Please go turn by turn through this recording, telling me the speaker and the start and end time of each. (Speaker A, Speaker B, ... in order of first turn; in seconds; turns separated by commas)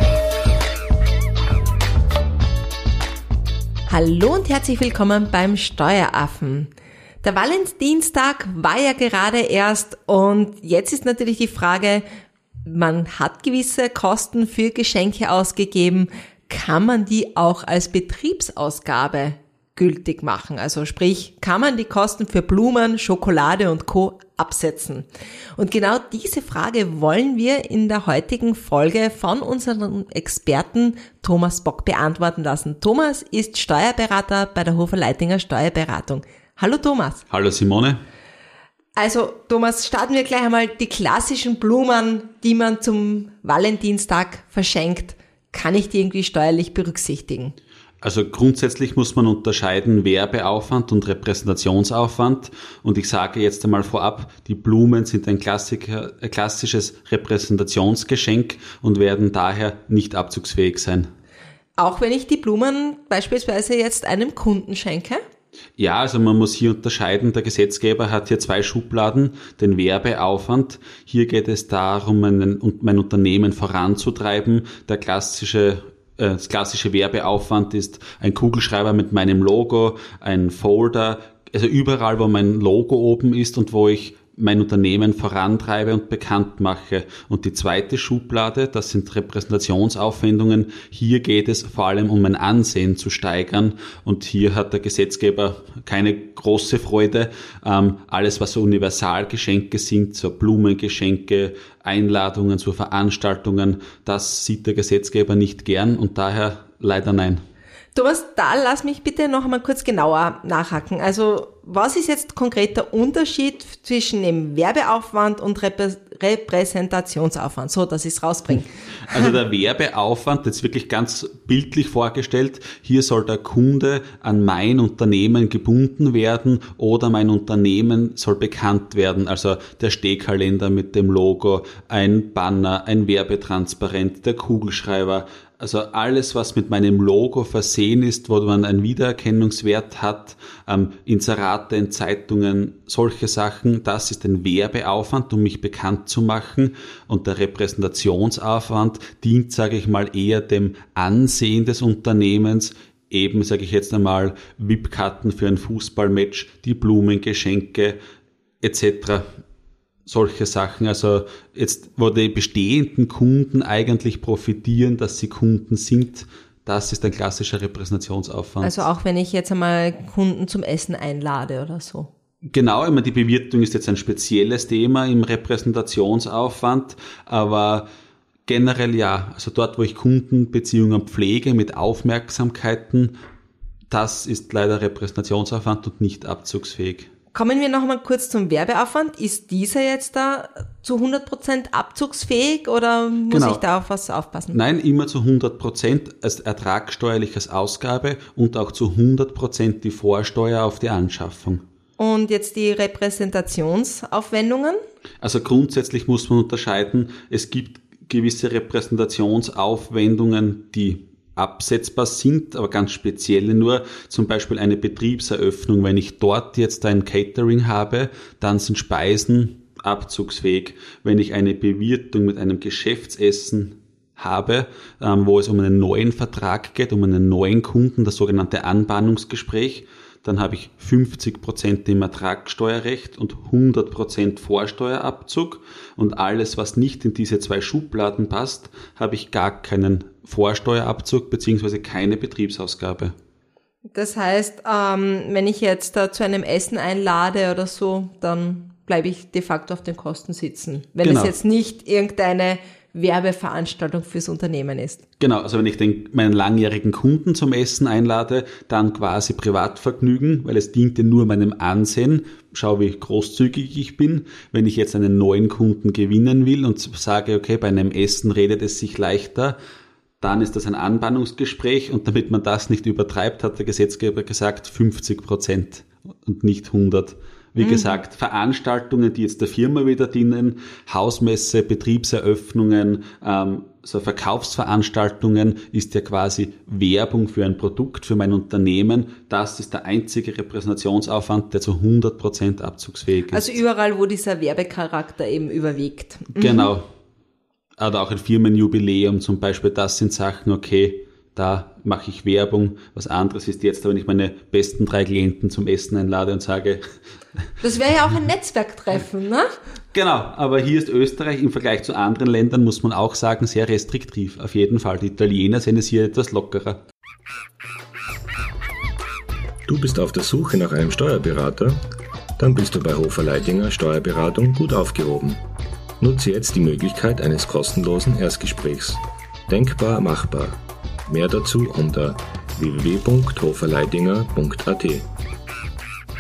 Speaker A: 3.9-6.7, Speaker A: 7.2-12.1, Speaker A: 12.7-37.2, Speaker B: 37.3-38.0, Speaker A: 39.0-47.5, Speaker B: 48.0-61.1, Speaker A: 61.8-65.2, Speaker B: 65.8-107.4, Speaker A: 107.9-119.2, Speaker B: 119.1-158.0, Speaker B: 158.6-159.2, Speaker B: 160.1-168.8, Speaker A: 168.6-172.1, Speaker B: 172.5-177.9, Speaker B: 178.5-183.2, Speaker B: 183.9-187.1, Speaker A: 187.3-194.6, Speaker B: 193.3-193.6, Speaker B: 194.5-201.6, Speaker A: 202.0-204.8, Speaker B: 205.2-243.1, Speaker A: 243.9-255.0, Speaker B: 251.0-251.3, Speaker B: 255.2-269.6, Speaker B: 270.2-293.6, Speaker A: 277.6-278.0, Speaker A: 293.3-296.7, Speaker B: 296.4-296.9, Speaker B: 297.8-306.8, Speaker A: 307.6-309.5, Speaker B: 309.9-316.8, Speaker C: 319.7-321.8, Speaker C: 322.4-325.4, Speaker C: 326.0-335.1